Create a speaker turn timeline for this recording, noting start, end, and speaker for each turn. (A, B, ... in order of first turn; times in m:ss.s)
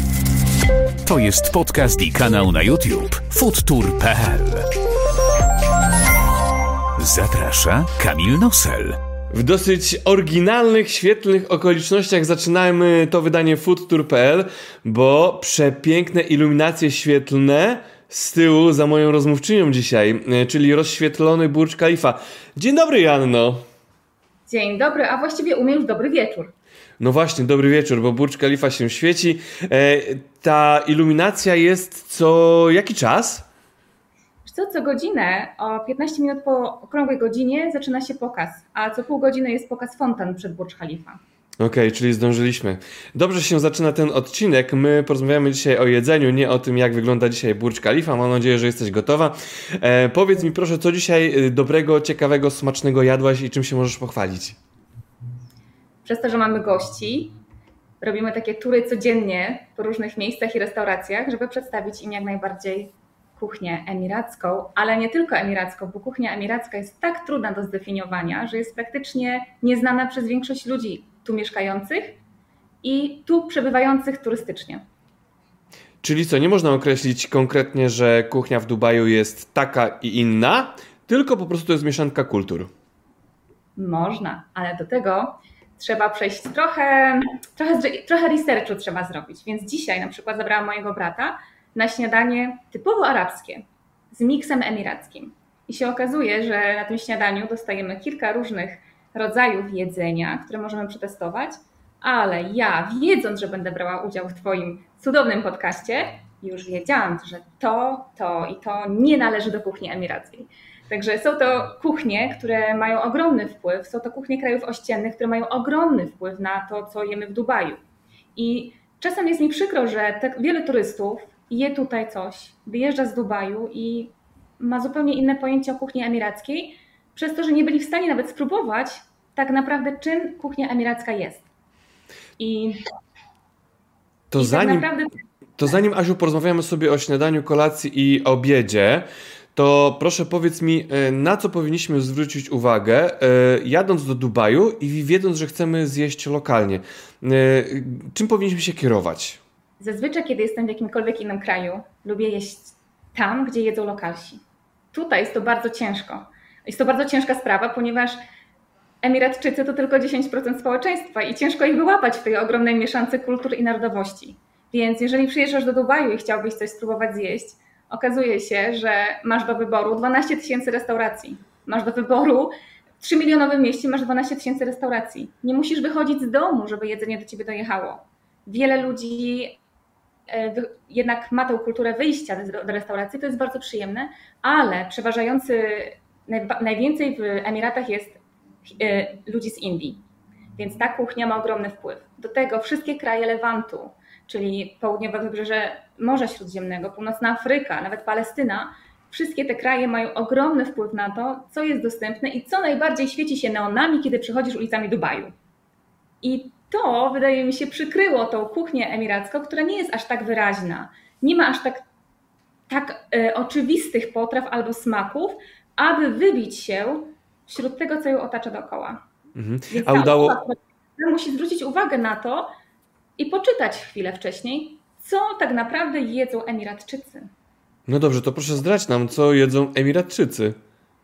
0:01.0-0:04.7 A
0:07.0-0:09.0 A
0:09.3-0:23.6 B
0:24.5-0:26.5 C
0:27.0-0:33.5 B
0:34.4-0:41.2 C
0:41.6-0:54.6 B
0:56.0-0:57.4 C
0:58.0-1:12.2 C
1:12.8-1:14.8 C
1:16.0-1:22.7 B
1:23.8-1:57.8 C
1:58.4-2:11.5 C
2:12.4-2:12.8 C
2:14.3-2:14.9 B
2:14.4-2:15.2 C
2:15.6-2:29.4 B
2:29.8-2:34.4 C
2:34.9-2:38.2 C
2:39.0-2:59.6 C
3:00.3-3:10.0 C
3:10.6-3:25.3 C
3:26.2-3:31.8 C
3:32.7-3:39.0 C
3:39.4-3:40.4 B
3:39.7-3:42.5 C
3:43.2-3:47.3 C
3:47.9-3:50.6 B